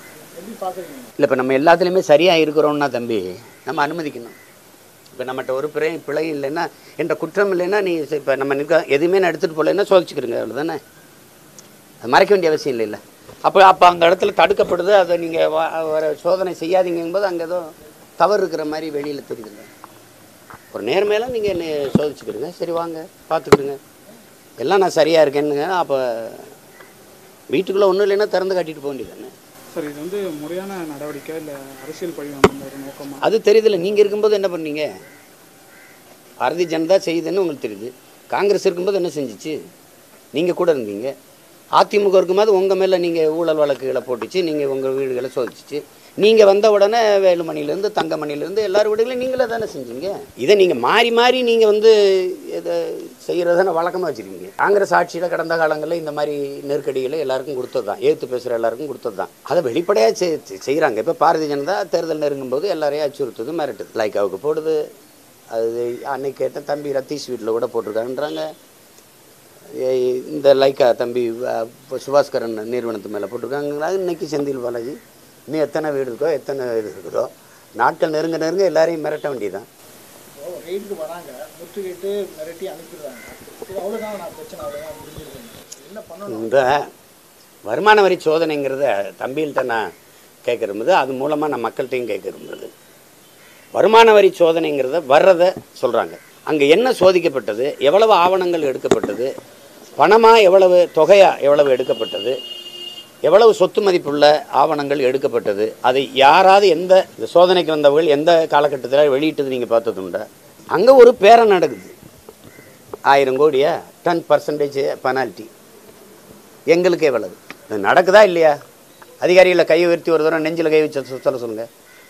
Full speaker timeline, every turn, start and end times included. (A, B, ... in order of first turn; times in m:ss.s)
0:00.4-0:01.1 A
0:01.2-0:04.4 B
0:05.2-0:10.8 B
0:12.0-0:19.7 B
0:20.7-0:23.8 B
0:24.6-0:26.5 B
0:27.5-0:29.3 B
0:29.7-0:33.3 C
0:33.2-0:34.9 B
0:36.4-0:39.6 B
0:40.3-0:41.1 B
0:41.8-1:04.8 B
1:05.5-1:08.5 B
1:09.7-1:15.0 B
1:15.5-1:19.7 B
1:20.4-1:26.5 A
1:26.3-1:26.9 B
1:27.7-1:29.8 B
1:30.4-1:32.7 B
1:33.8-1:39.3 B
1:40.0-1:42.4 B
1:43.2-1:51.9 B
1:53.1-1:55.5 B
1:56.7-1:58.5 B
1:59.2-2:01.7 B